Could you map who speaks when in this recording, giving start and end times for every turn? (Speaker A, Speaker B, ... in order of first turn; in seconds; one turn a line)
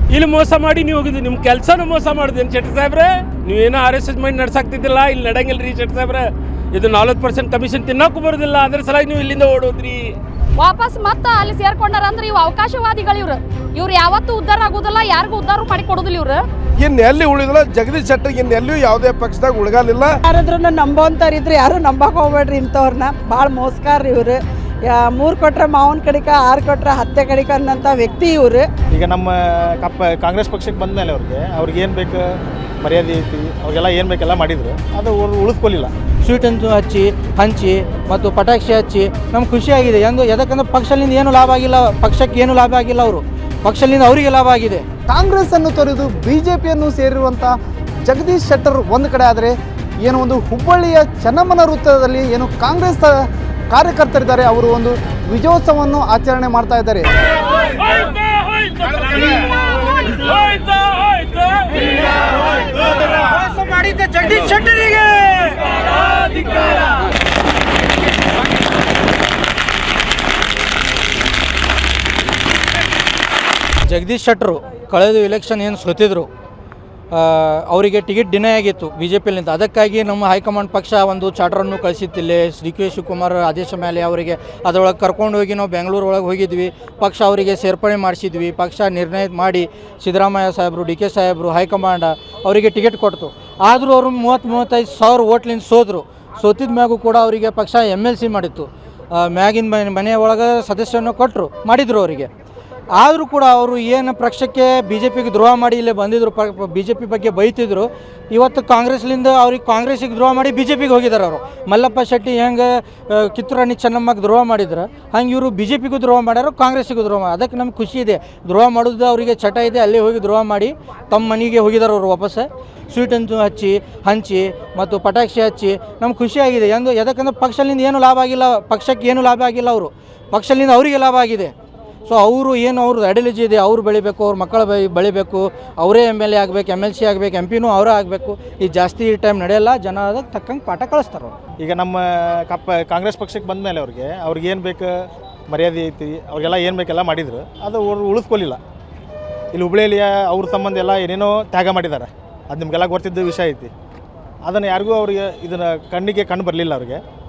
Speaker A: 0.1-10.0
Speaker B: 10.6-16.4
Speaker C: 16.8-20.1
Speaker D: 20.3-24.4
Speaker D: 24.9-28.7
Speaker E: 28.9-32.2
Speaker E: 32.8-35.9
Speaker F: 36.2-44.9
Speaker G: 45.1-47.5
Speaker G: 48.1-49.5
Speaker G: 50.1-57.1
Speaker A: 57.9-59.6
Speaker A: 60.2-61.7
Speaker A: 64.3-64.9
Speaker F: 73.9-76.3
Speaker F: 77.1-102.3
Speaker F: 103.0-131.5
Speaker F: 132.1-141.4
Speaker E: 141.6-144.9
Speaker E: 145.5-148.6
Speaker E: 149.5-153.7
Speaker E: 154.5-157.0